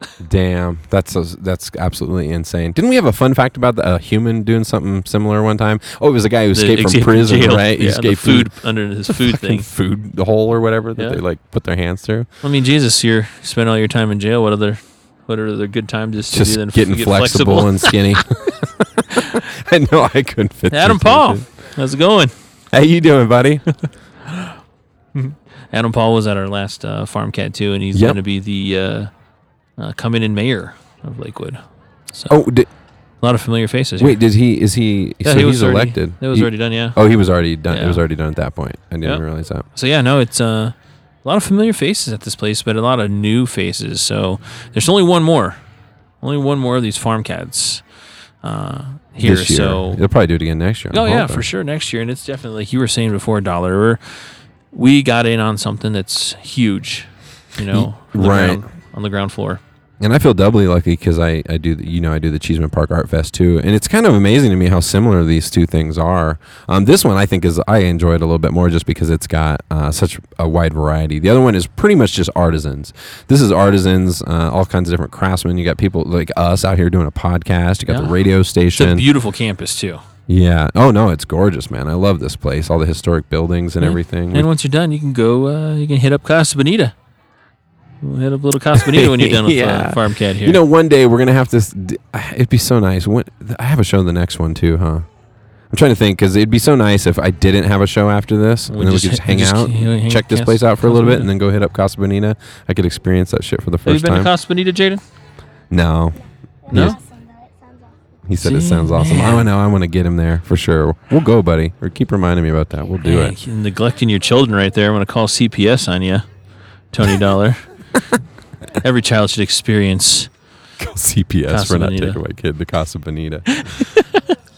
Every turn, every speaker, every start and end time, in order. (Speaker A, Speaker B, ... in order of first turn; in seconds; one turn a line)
Speaker A: 0.2-8.5
Speaker B: 6.5-9.7
Speaker A: 9.1-12.3
Speaker B: 10.9-11.2
Speaker B: 12.4-17.9
Speaker A: 16.3-21.4
Speaker B: 20.7-22.3
Speaker A: 22.7-23.6
Speaker B: 24.3-24.5
Speaker B: 25.1-29.1
Speaker A: 27.9-28.2
Speaker B: 29.8-31.6
Speaker A: 32.3-32.7
Speaker B: 33.2-34.2
Speaker A: 34.0-39.6
Speaker B: 35.2-37.0
Speaker B: 37.7-38.0
Speaker B: 39.7-45.6
Speaker B: 46.2-47.8
Speaker B: 48.4-50.0
Speaker A: 49.2-51.4
Speaker B: 50.9-54.0
Speaker B: 54.7-59.6
Speaker A: 57.7-58.6
Speaker A: 60.0-79.0
Speaker B: 77.9-78.1
Speaker B: 78.7-80.0
Speaker A: 80.3-84.5
Speaker B: 83.8-86.9
Speaker B: 88.0-90.6
Speaker A: 88.7-95.0
Speaker A: 95.7-104.3
Speaker B: 98.7-101.3
Speaker B: 103.8-105.0
Speaker A: 105.7-106.2
Speaker B: 106.7-107.0
Speaker A: 106.7-107.0
Speaker A: 108.3-113.4
Speaker B: 108.4-109.5
Speaker B: 113.0-116.2
Speaker B: 116.9-118.0
Speaker B: 118.8-120.3
Speaker A: 120.8-123.5
Speaker B: 121.5-122.2
Speaker B: 123.6-124.2